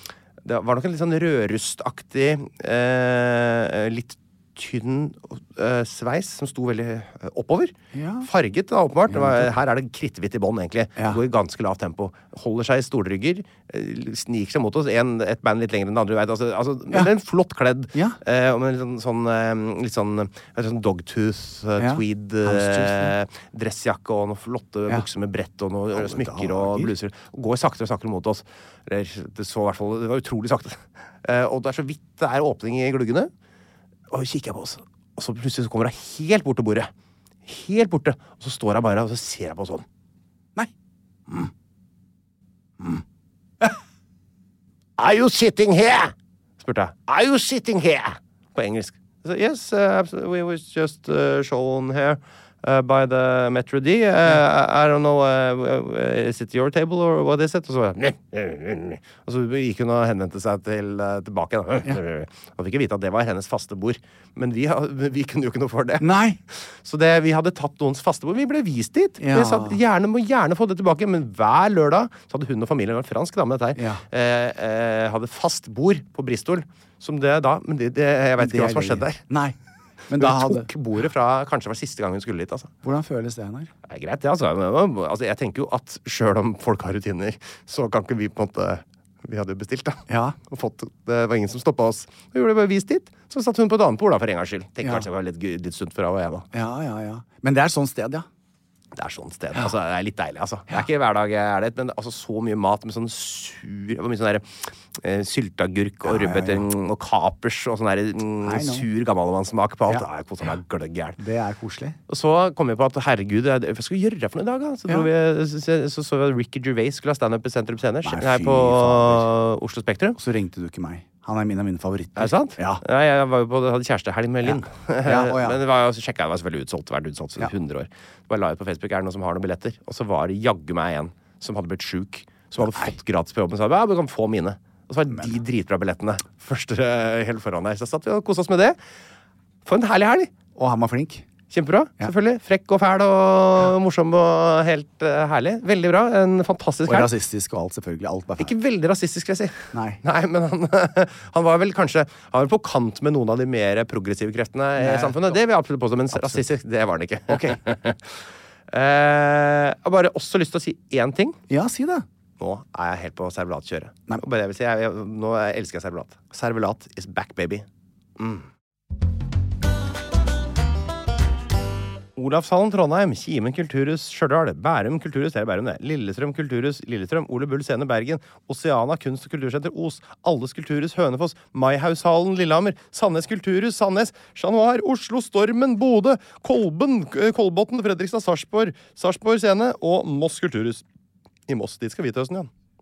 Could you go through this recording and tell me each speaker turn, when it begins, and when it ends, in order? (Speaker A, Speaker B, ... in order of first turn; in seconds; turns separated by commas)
Speaker A: 0.5-33.3, Speaker B: 7.9-8.3, Speaker B: 9.1-9.5, Speaker B: 21.8-23.2, Speaker B: 25.9-26.9, Speaker A: 34.1-36.9, Speaker A: 37.5-39.9, Speaker A: 45.0-79.2, Speaker B: 66.0-66.4, Speaker B: 69.2-69.8, Speaker B: 73.8-74.0, Speaker B: 78.4-79.6, Speaker B: 80.1-80.7, Speaker A: 80.2-82.7, Speaker B: 82.8-83.7, Speaker A: 83.9-96.5, Speaker B: 90.1-90.4, Speaker B: 96.5-98.3, Speaker A: 99.0-104.5, Speaker A: 105.0-111.2, Speaker B: 106.0-106.6, Speaker B: 108.4-108.9, Speaker B: 111.2-112.0, Speaker A: 112.1-120.2, Speaker B: 118.0-119.3, Speaker B: 120.2-122.8, Speaker A: 122.2-138.8, Speaker B: 124.5-125.6, Speaker B: 132.6-133.0, Speaker B: 135.1-135.4, Speaker A: 139.7-140.3, Speaker B: 140.6-141.2, Speaker A: 141.5-147.1, Speaker B: 146.8-148.5, Speaker A: 148.4-158.1, Speaker B: 149.7-150.0, Speaker B: 154.8-155.4, Speaker B: 156.1-156.5, Speaker B: 157.3-157.6, Speaker A: 158.7-161.4, Speaker B: 161.5-162.1, Speaker A: 162.4-167.7, Speaker A: 168.2-168.5, Speaker A: 172.2-190.8, Speaker A: 191.5-192.5